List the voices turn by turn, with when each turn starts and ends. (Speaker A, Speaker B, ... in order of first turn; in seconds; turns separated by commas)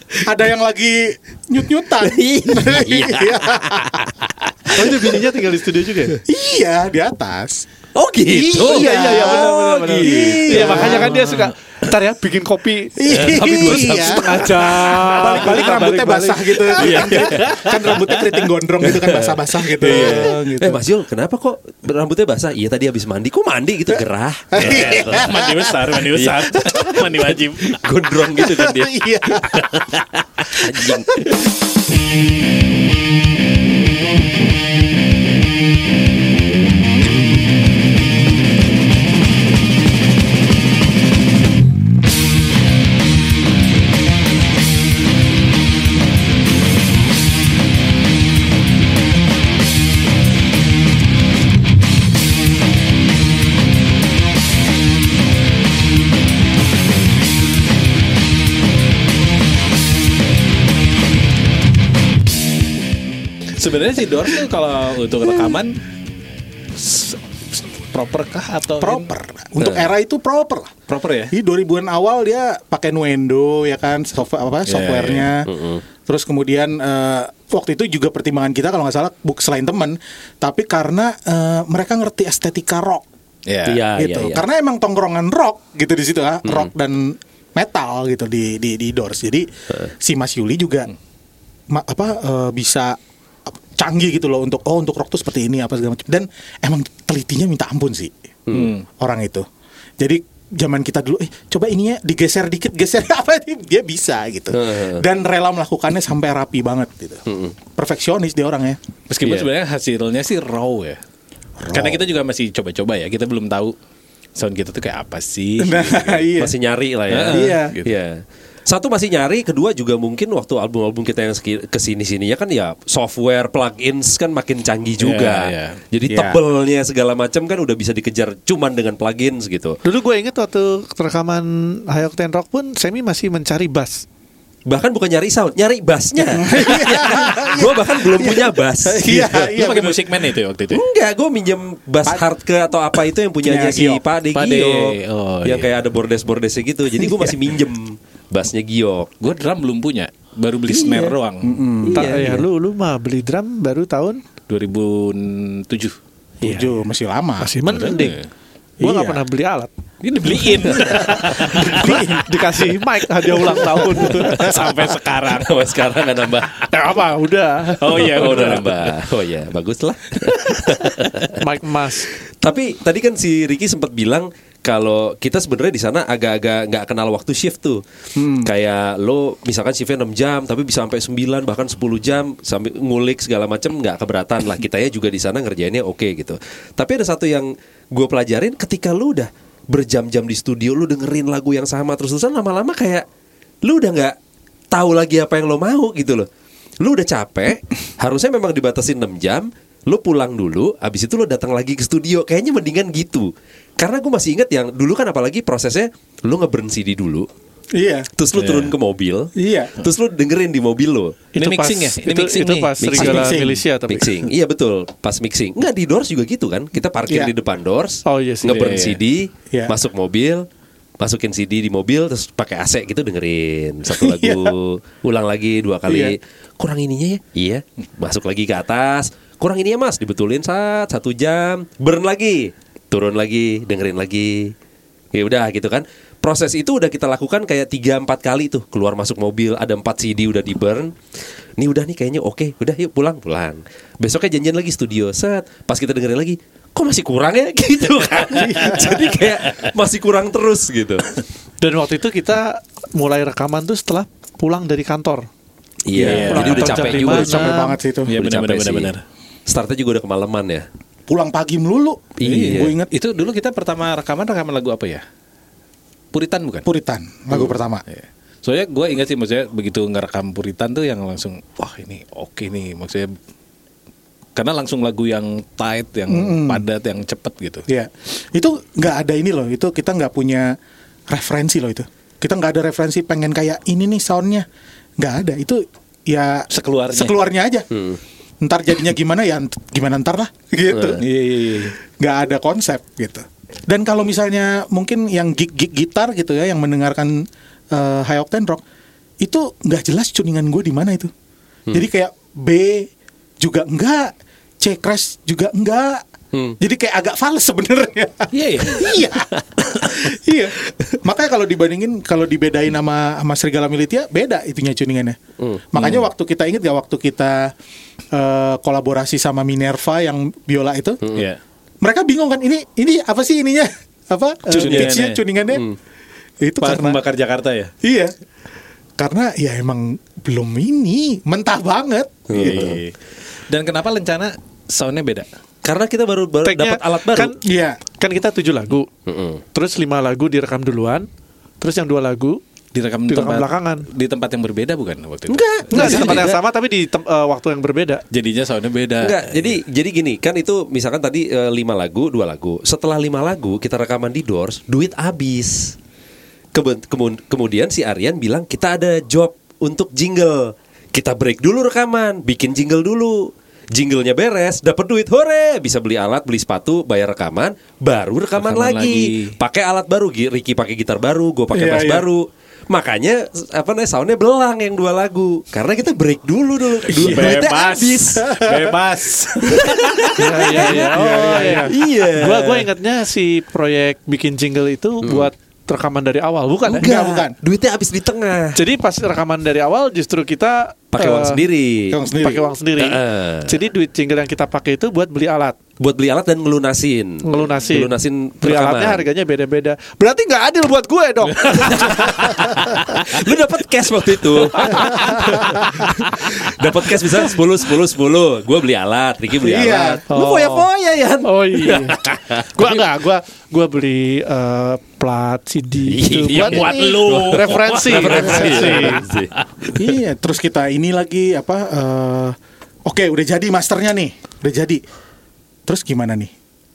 Speaker A: 0.2-4.1, Speaker B: 2.0-4.7, Speaker C: 4.7-6.2, Speaker A: 6.2-7.7, Speaker B: 8.0-11.1, Speaker A: 8.3-11.1, Speaker C: 8.6-17.5, Speaker D: 10.8-11.5, Speaker A: 13.0-20.8, Speaker B: 13.1-14.7, Speaker B: 16.8-18.2, Speaker B: 18.8-25.3, Speaker D: 19.8-20.3, Speaker A: 24.5-25.9, Speaker D: 24.6-27.8, Speaker B: 26.1-31.3, Speaker A: 28.4-29.6, Speaker A: 30.7-31.4, Speaker D: 63.5-65.8, Speaker D: 66.7-69.1, Speaker A: 68.8-70.8, Speaker B: 69.6-69.9, Speaker D: 70.9-71.3, Speaker A: 71.3-75.5, Speaker D: 74.7-75.3, Speaker B: 75.4-75.8, Speaker A: 76.1-83.0, Speaker D: 83.5-83.8, Speaker B: 83.7-84.4, Speaker A: 83.9-90.9, Speaker B: 86.4-86.7, Speaker A: 91.7-93.0, Speaker A: 93.7-98.2, Speaker B: 98.5-98.8, Speaker D: 98.5-98.8, Speaker A: 99.0-99.5, Speaker A: 100.0-107.2, Speaker B: 104.5-105.0, Speaker B: 107.3-107.5, Speaker A: 107.7-108.8, Speaker D: 109.1-111.0, Speaker B: 109.2-109.5, Speaker A: 111.6-112.1, Speaker D: 111.7-113.8, Speaker D: 114.4-116.3, Speaker A: 115.6-116.5, Speaker B: 116.4-129.8, Speaker D: 117.1-117.9, Speaker A: 117.3-117.8, Speaker D: 125.0-125.8, Speaker A: 126.1-126.4, Speaker C: 129.8-134.0, Speaker B: 134.7-139.5, Speaker A: 136.3-140.1, Speaker D: 139.2-140.8, Speaker B: 140.7-149.1, Speaker A: 143.4-144.0, Speaker D: 144.3-145.8, Speaker A: 147.0-147.3, Speaker D: 149.2-151.6, Speaker A: 150.7-152.2, Speaker B: 151.8-152.4, Speaker C: 151.9-154.2, Speaker D: 154.5-156.0, Speaker A: 156.4-157.5, Speaker C: 156.4-156.7, Speaker C: 157.4-158.2, Speaker D: 157.7-158.3, Speaker C: 158.8-159.7, Speaker A: 158.8-159.2, Speaker D: 160.0-162.1, Speaker C: 160.3-164.6, Speaker A: 160.8-162.2, Speaker A: 163.3-164.7, Speaker D: 163.5-165.7, Speaker B: 165.3-166.6, Speaker C: 166.7-168.6, Speaker D: 167.8-169.0, Speaker B: 167.9-171.4, Speaker C: 171.3-172.1, Speaker B: 172.4-177.8, Speaker A: 178.1-178.5, Speaker B: 178.3-193.0, Speaker B: 193.6-194.2, Speaker B: 194.7-196.3, Speaker B: 196.8-207.3, Speaker A: 207.8-208.1, Speaker B: 208.2-211.2, Speaker D: 208.3-208.7, Speaker A: 209.3-209.7, Speaker C: 211.3-214.2, Speaker D: 211.3-212.7, Speaker B: 212.8-213.4, Speaker A: 213.0-213.6, Speaker B: 213.9-220.4, Speaker C: 218.1-218.8, Speaker D: 218.4-219.0, Speaker B: 221.0-234.5, Speaker A: 223.9-224.5, Speaker A: 225.9-226.1, Speaker B: 235.1-240.9, Speaker B: 241.6-251.2, Speaker A: 248.3-248.9, Speaker D: 248.6-248.8, Speaker C: 251.6-255.3, Speaker B: 255.8-258.9, Speaker D: 255.9-257.3, Speaker C: 256.0-257.7, Speaker A: 257.1-258.1, Speaker D: 258.1-259.0, Speaker B: 259.5-260.6, Speaker A: 261.1-262.9, Speaker B: 262.2-262.8, Speaker D: 262.2-265.0, Speaker D: 266.1-266.7, Speaker A: 266.6-267.8, Speaker D: 267.3-273.2, Speaker D: 274.3-277.7, Speaker A: 276.1-276.6, Speaker A: 277.7-280.6, Speaker A: 281.1-284.5, Speaker A: 285.0-287.7, Speaker D: 286.5-287.2, Speaker B: 287.7-288.0, Speaker A: 288.4-291.0, Speaker D: 291.0-291.7, Speaker A: 292.0-298.6, Speaker A: 299.2-301.1, Speaker A: 301.7-302.9, Speaker A: 303.4-306.0, Speaker A: 306.6-315.2, Speaker D: 308.3-309.0, Speaker A: 315.7-317.5, Speaker D: 315.8-316.1, Speaker A: 318.1-321.0, Speaker A: 321.8-325.6, Speaker D: 324.5-325.2, Speaker B: 324.6-324.9, Speaker A: 326.4-327.0, Speaker D: 326.6-327.7, Speaker A: 327.8-328.1, Speaker A: 329.0-332.8, Speaker B: 332.3-332.8, Speaker D: 332.4-332.9, Speaker D: 333.5-335.3, Speaker B: 335.6-337.3, Speaker C: 336.4-337.4, Speaker A: 337.4-337.8, Speaker C: 338.0-338.9, Speaker B: 339.1-339.4, Speaker C: 339.5-341.1, Speaker C: 341.6-342.4, Speaker D: 342.7-346.3, Speaker C: 343.1-343.9, Speaker B: 345.3-346.4, Speaker C: 345.7-348.0, Speaker D: 348.1-349.5, Speaker B: 349.0-355.7, Speaker B: 356.5-378.3, Speaker D: 368.4-369.3, Speaker A: 371.5-372.1, Speaker A: 376.9-377.3, Speaker D: 377.0-381.6, Speaker A: 378.1-378.8, Speaker A: 379.4-379.7, Speaker B: 379.5-380.8, Speaker C: 380.1-386.9, Speaker A: 380.6-381.7, Speaker B: 381.7-382.7, Speaker B: 385.0-385.3, Speaker B: 386.7-388.6, Speaker A: 386.7-387.4, Speaker C: 388.6-391.4, Speaker B: 390.9-392.0, Speaker A: 391.9-392.5, Speaker C: 392.2-395.6, Speaker B: 392.8-393.6, Speaker B: 395.8-399.1, Speaker C: 397.2-402.7, Speaker B: 401.4-412.9, Speaker C: 404.6-405.3, Speaker A: 409.4-410.0, Speaker C: 410.1-410.6, Speaker C: 411.2-412.0, Speaker C: 412.5-419.0, Speaker B: 415.9-420.0, Speaker D: 416.2-419.2, Speaker A: 419.8-424.8, Speaker A: 425.7-426.3